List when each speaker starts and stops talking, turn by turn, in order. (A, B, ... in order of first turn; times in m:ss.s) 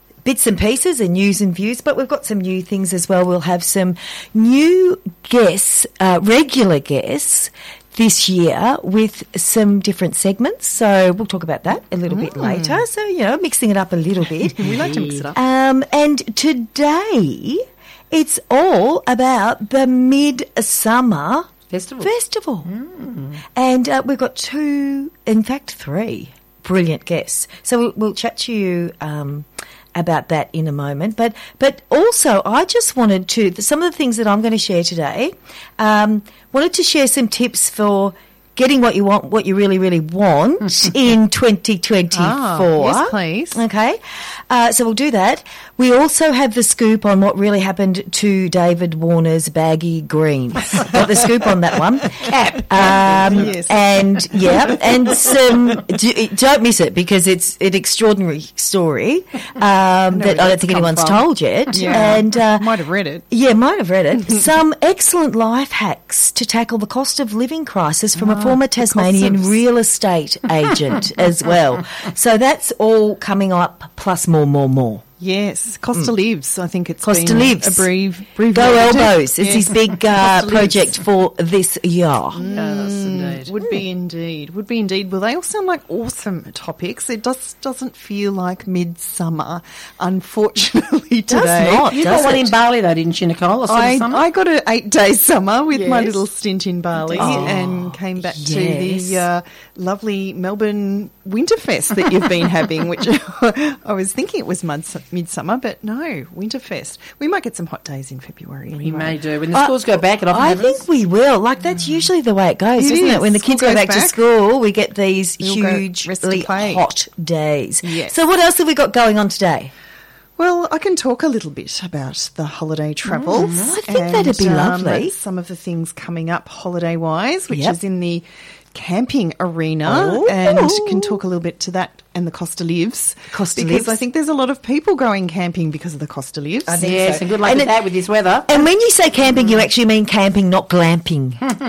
0:00.2-0:22.7 A
0:12.1-0:12.8 B
0:14.6-0:15.4 B
0:14.6-0:15.3 C
0:21.7-0:22.1 C
0:22.6-0:23.4 C
0:23.5-1:02.7 A
0:42.1-0:43.6 B
0:52.0-0:53.5 C
0:53.2-0:54.1 B
0:54.4-0:55.3 C
1:00.1-1:03.2 B
1:03.3-1:15.0 A
1:08.2-1:09.6 B
1:15.2-1:21.0 B
1:17.0-1:17.9 A
1:18.5-1:22.4 A
1:22.3-1:32.0 B
1:22.4-1:23.5 C
1:31.3-1:32.5 A
1:31.9-1:34.2 C
1:33.7-1:49.2 B
1:35.7-1:36.2 C
1:37.0-1:37.5 C
1:37.2-1:39.2 A
1:48.7-1:50.8 C
1:50.3-1:59.7 A
1:52.8-1:54.2 B
1:55.4-1:56.8 B
1:57.8-1:58.2 B
2:00.4-2:16.9 B
2:03.1-2:05.1 A
2:03.3-2:03.8 C
2:07.5-2:07.8 A
2:09.8-2:11.2 A
2:13.3-2:14.0 A
2:16.7-2:17.7 A
2:16.7-2:18.6 C
2:18.5-2:21.4 A